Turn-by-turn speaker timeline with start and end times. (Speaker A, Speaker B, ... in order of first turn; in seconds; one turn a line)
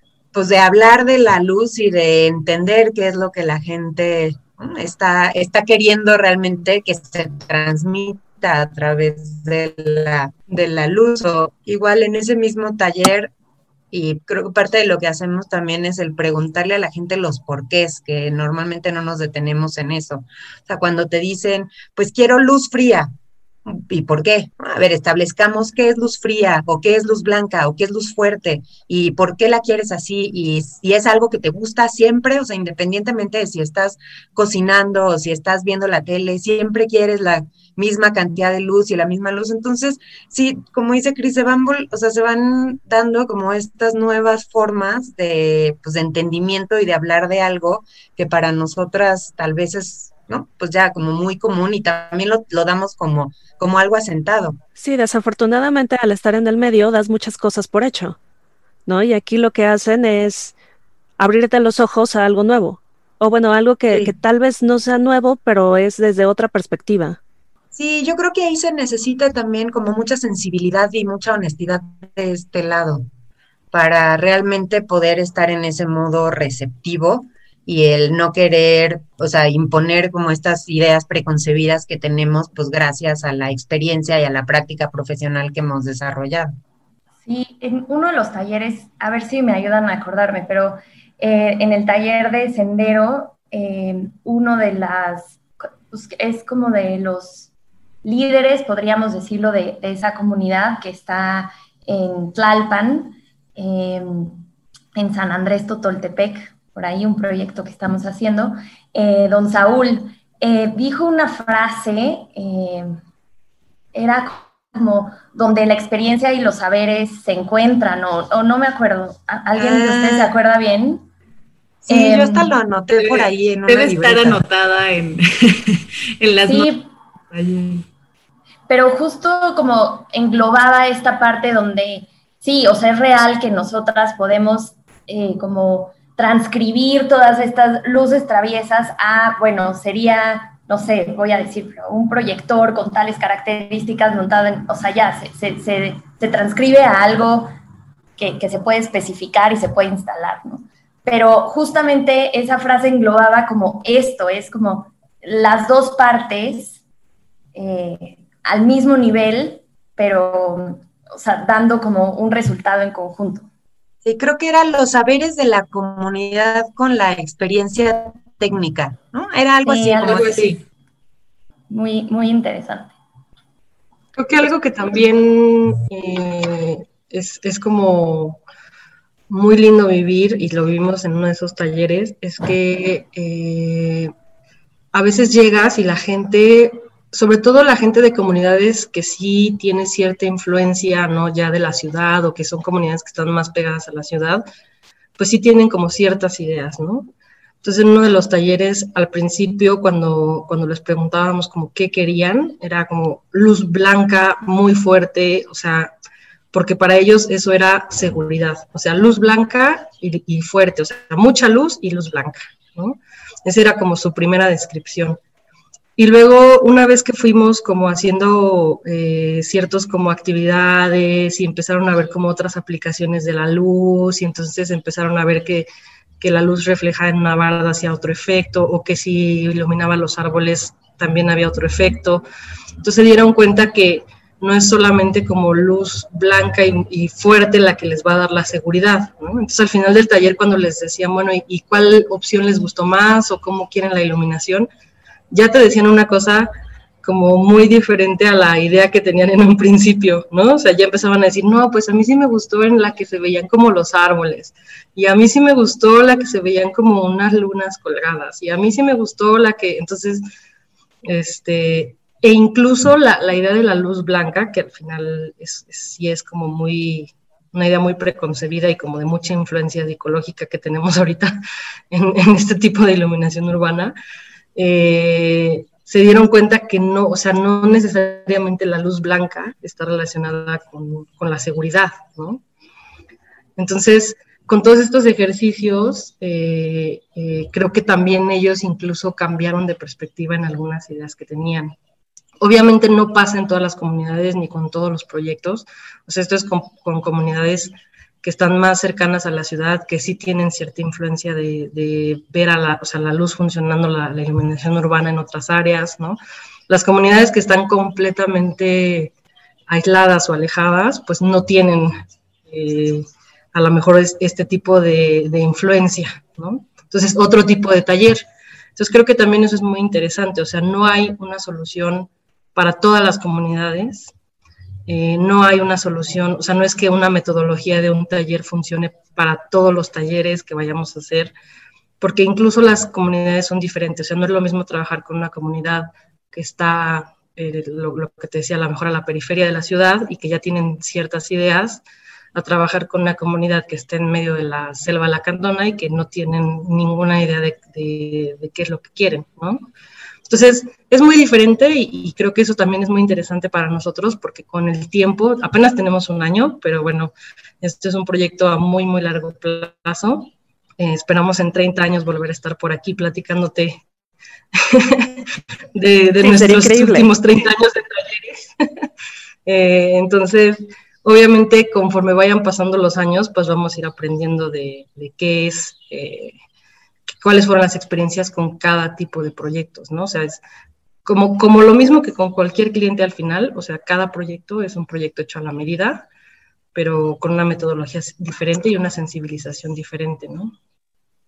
Speaker A: 0.3-13.3
Speaker A: 13.9-23.1
Speaker A: 23.6-54.6
Speaker B: 54.8-58.2
Speaker B: 58.9-60.5
Speaker B: 61.2-67.2
Speaker A: 67.7-73.0
Speaker A: 73.7-86.5
Speaker C: 87.2-95.4
Speaker C: 95.9-97.5
Speaker C: 98.0-104.4
Speaker C: 104.9-113.0
Speaker C: 113.9-121.1
Speaker A: 119.6-120.3
Speaker A: 121.8-124.4
Speaker C: 121.9-122.5
Speaker D: 123.0-126.7
Speaker C: 126.5-126.8
Speaker D: 127.3-127.8
Speaker C: 128.7-147.5
Speaker C: 148.2-156.8
Speaker C: 157.5-163.5
Speaker A: 164.0-170.5
Speaker C: 169.7-170.5
Speaker C: 171.7-172.9
Speaker E: 174.2-178.4
Speaker E: 179.3-184.1
Speaker E: 184.9-194.4
Speaker E: 195.2-197.1
Speaker E: 197.6-205.9
Speaker E: 206.5-215.2
Speaker E: 216.0-225.7
Speaker E: 226.2-232.2
Speaker E: 232.8-244.7
Speaker E: 245.3-246.5
Speaker E: 247.0-260.2
Speaker E: 261.0-271.4
Speaker E: 271.9-273.9
Speaker E: 274.5-282.4
Speaker E: 283.6-291.7
Speaker E: 292.4-306.2
Speaker E: 306.7-309.1
Speaker E: 309.7-311.9
Speaker E: 312.5-318.2
Speaker E: 318.8-324.1
Speaker E: 324.9-331.3
Speaker E: 332.0-341.8
Speaker E: 342.3-349.7
Speaker E: 350.3-363.8
Speaker E: 364.5-368.5
Speaker B: 366.2-367.1
Speaker E: 369.4-376.4
Speaker E: 377.2-380.4
Speaker E: 381.0-386.1
Speaker E: 386.7-390.5